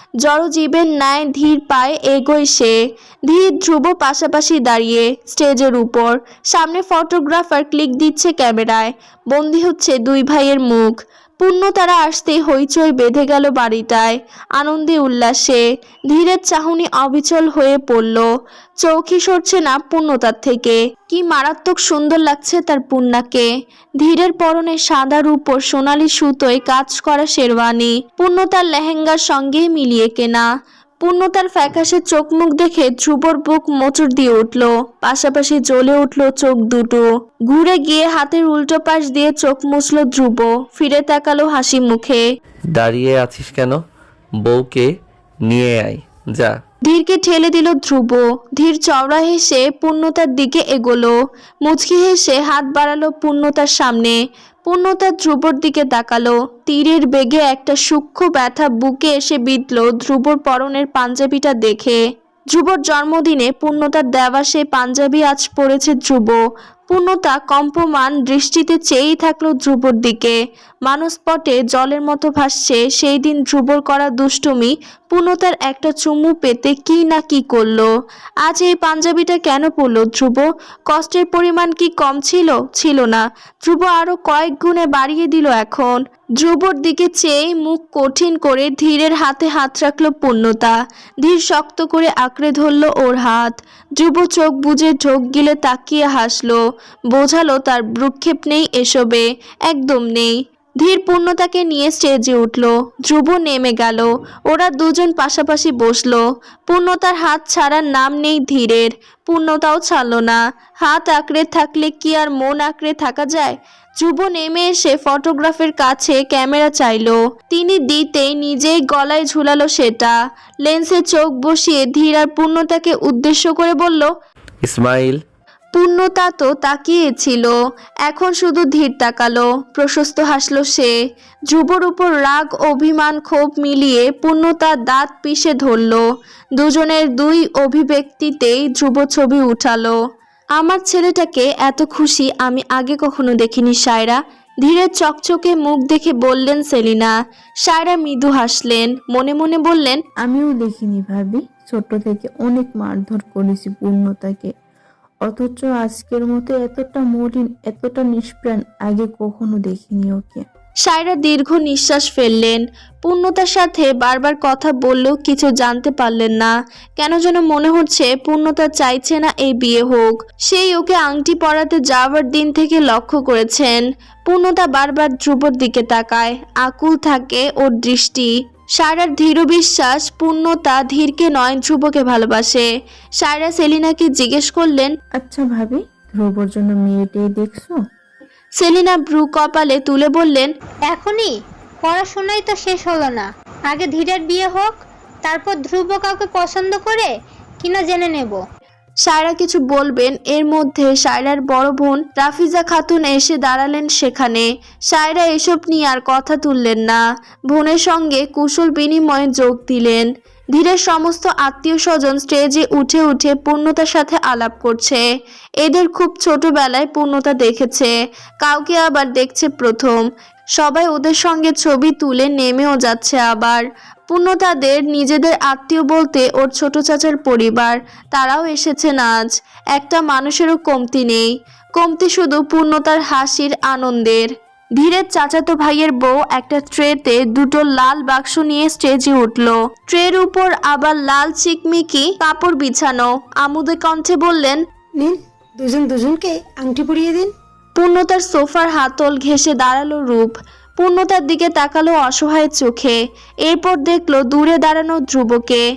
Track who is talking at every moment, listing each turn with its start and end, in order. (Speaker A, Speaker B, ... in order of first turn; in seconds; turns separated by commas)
Speaker A: 0.2-2.8, Speaker A: 3.3-18.3, Speaker A: 18.8-23.5, Speaker A: 24.0-30.5, Speaker A: 31.0-42.2, Speaker B: 42.7-43.8, Speaker B: 44.4-44.9, Speaker B: 45.5-46.5, Speaker A: 46.9-62.0, Speaker A: 62.5-77.9, Speaker A: 78.4-96.6, Speaker A: 97.1-124.1, Speaker B: 124.6-125.2, Speaker A: 125.8-130.9, Speaker A: 131.5-136.0, Speaker A: 136.6-140.0, Speaker A: 140.6-147.1, Speaker A: 147.7-150.0, Speaker C: 150.2-154.5, Speaker C: 155.2-160.4, Speaker A: 160.9-182.7, Speaker A: 183.2-184.9, Speaker C: 185.2-187.8, Speaker A: 188.6-190.5, Speaker D: 190.9-191.2, Speaker D: 191.9-193.2, Speaker D: 193.7-194.7, Speaker D: 195.3-197.1, Speaker D: 197.7-198.4, Speaker A: 199.1-215.1, Speaker A: 215.6-220.0, Speaker A: 220.6-244.6, Speaker E: 244.9-247.3, Speaker A: 247.8-255.6